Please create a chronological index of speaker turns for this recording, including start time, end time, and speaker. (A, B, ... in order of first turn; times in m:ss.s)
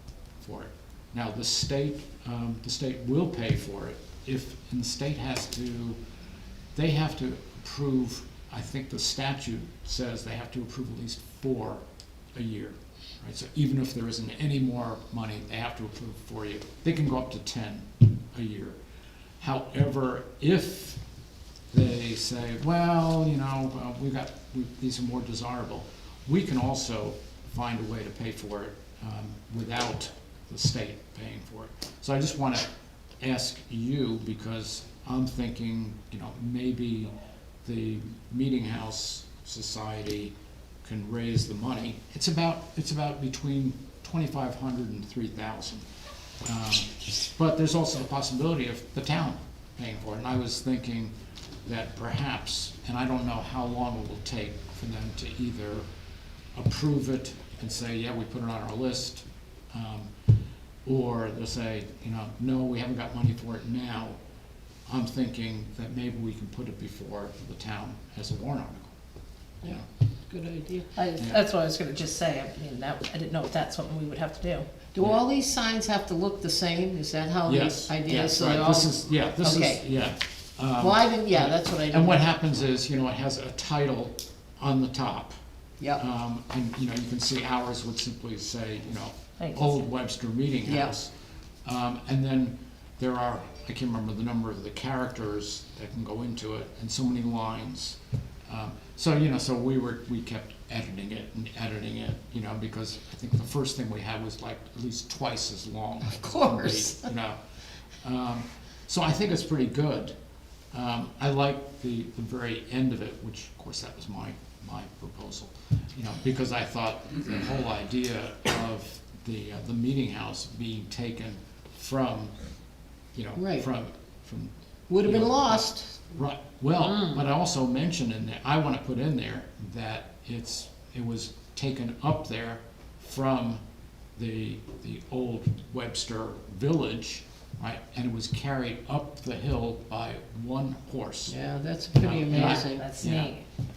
0:00.4-0:06.0 A
0:06.7-0:18.8 A
0:19.4-0:21.0 A
0:21.7-0:32.7 A
0:33.2-0:37.1 A
0:37.6-0:45.9 A
0:46.4-0:51.1 A
0:51.7-0:55.9 A
0:56.6-1:00.1 A
1:00.8-1:04.2 A
1:04.9-1:08.9 A
1:09.6-1:10.9 B
1:11.0-1:14.7 C
1:14.9-1:19.8 B
1:17.5-1:25.4 A
1:20.8-1:22.3 B
1:26.0-1:31.1 A
1:29.4-1:29.8 C
1:30.7-1:30.9 B
1:31.6-1:47.4 A
1:46.1-1:47.1 B
1:48.0-1:50.2 A
1:50.7-2:02.3 A
2:03.1-2:13.6 A
2:03.4-2:03.7 B
2:04.9-2:06.1 B
2:14.2-2:21.3 A
2:21.3-2:22.9 B
2:22.0-2:23.3 A
2:22.3-2:23.4 C